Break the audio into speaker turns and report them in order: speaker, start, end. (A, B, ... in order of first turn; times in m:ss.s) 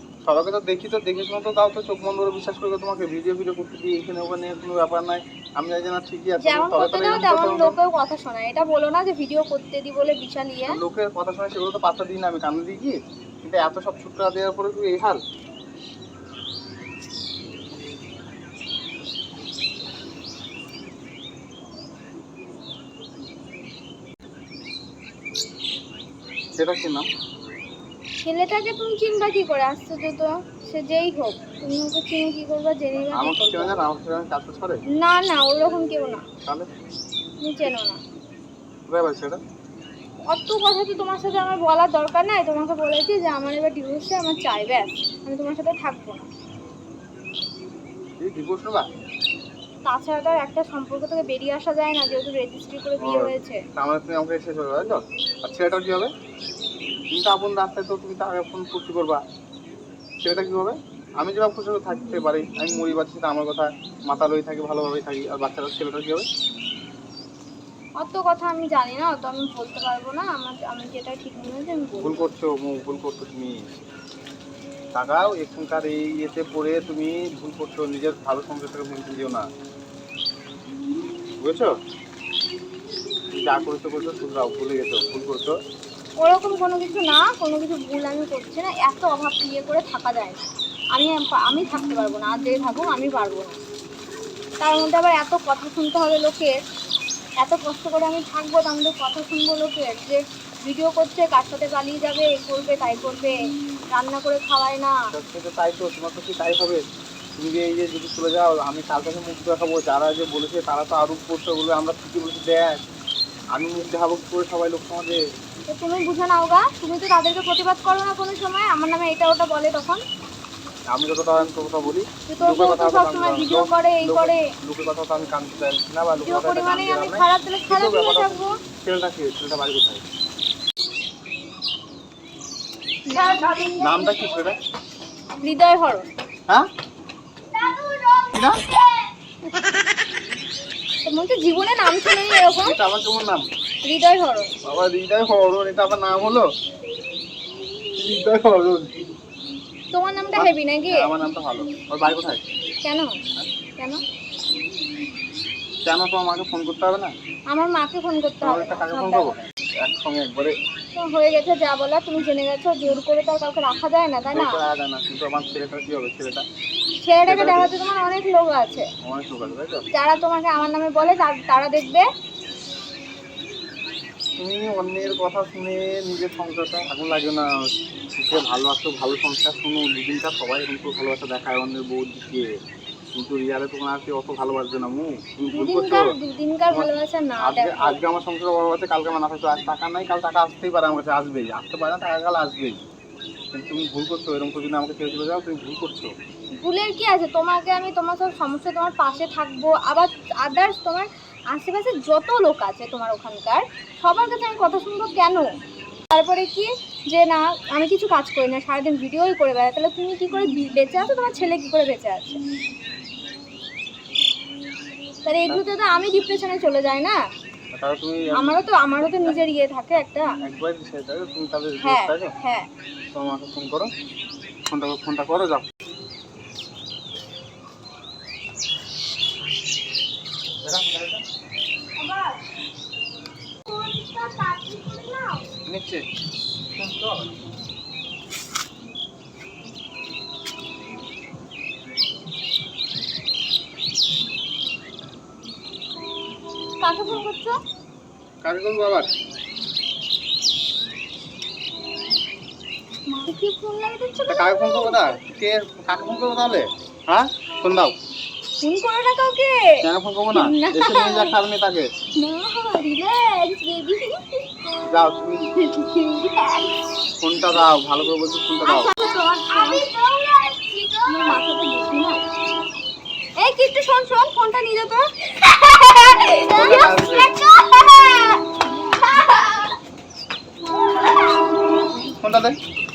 0:00.3-0:07.8 A
0:06.4-0:10.8 B
0:10.7-0:15.2 A
0:26.6-0:27.1 A
0:28.2-0:33.8 B
0:33.1-0:34.8 A
0:34.9-0:36.2 B
0:37.4-0:38.0 B
0:38.9-0:39.4 A
0:40.3-0:46.3 B
0:48.2-0:48.9 A
0:49.9-0:53.6 B
0:53.0-0:56.1 A
0:57.1-0:59.2 A
1:00.2-1:06.3 A
1:08.0-1:12.3 B
1:12.0-1:13.8 A
1:15.0-1:19.5 A
1:21.4-1:21.7 A
1:23.4-1:25.6 A
1:26.2-1:33.6 B
1:34.6-1:36.5 B
1:37.4-1:43.4 B
1:43.9-1:45.0 B
1:45.1-1:46.8 A
1:47.4-1:52.8 A
1:53.6-1:55.2 A
1:55.7-2:00.0 B
2:00.9-2:10.0 A
2:02.3-2:04.5 B
2:06.2-2:08.6 B
2:13.1-2:14.5 B
2:13.8-2:14.6 A
2:15.4-2:16.1 B
2:17.5-2:19.1 B
2:18.3-2:18.6 A
2:21.1-2:22.8 B
2:22.6-2:23.5 A
2:23.8-2:24.5 B
2:24.6-2:26.5 A
2:28.0-2:28.9 A
2:29.9-2:31.1 B
2:30.4-2:32.4 A
2:32.8-2:33.2 B
2:35.9-2:37.1 A
2:37.5-2:39.3 B
2:38.4-2:40.6 A
2:41.0-2:44.6 B
2:44.3-2:46.4 A
2:47.0-2:48.9 B
2:47.3-2:47.7 A
2:49.0-2:49.8 A
2:49.9-2:52.0 B
2:54.4-3:02.5 A
3:03.2-3:06.1 A
3:05.5-3:08.0 B
3:07.4-3:12.8 A
3:13.5-3:16.1 A
3:16.6-3:25.5 B
3:26.1-3:32.4 B
3:35.3-3:37.2 B
3:37.8-3:38.6 A
3:38.4-3:40.3 B
3:40.4-3:42.3 A
3:41.8-3:42.7 B
3:43.2-3:43.9 A
3:44.7-3:45.7 A
3:50.6-3:51.2 A
3:52.0-3:52.4 B
3:53.6-3:55.5 B
3:55.7-3:56.1 A
3:56.8-3:57.4 A
4:06.8-4:07.6 B
4:08.4-4:09.1 A
4:13.1-4:15.2 B
4:14.3-4:18.0 A
4:18.6-4:19.8 B
4:19.8-4:21.9 A
4:20.3-4:21.4 B
4:22.2-4:24.7 B
4:24.9-4:25.5 A
4:25.6-4:26.7 B
4:27.2-4:28.9 A
4:28.6-4:32.2 B
4:33.4-4:39.8 B
4:36.6-4:37.3 A
4:42.2-4:42.6 A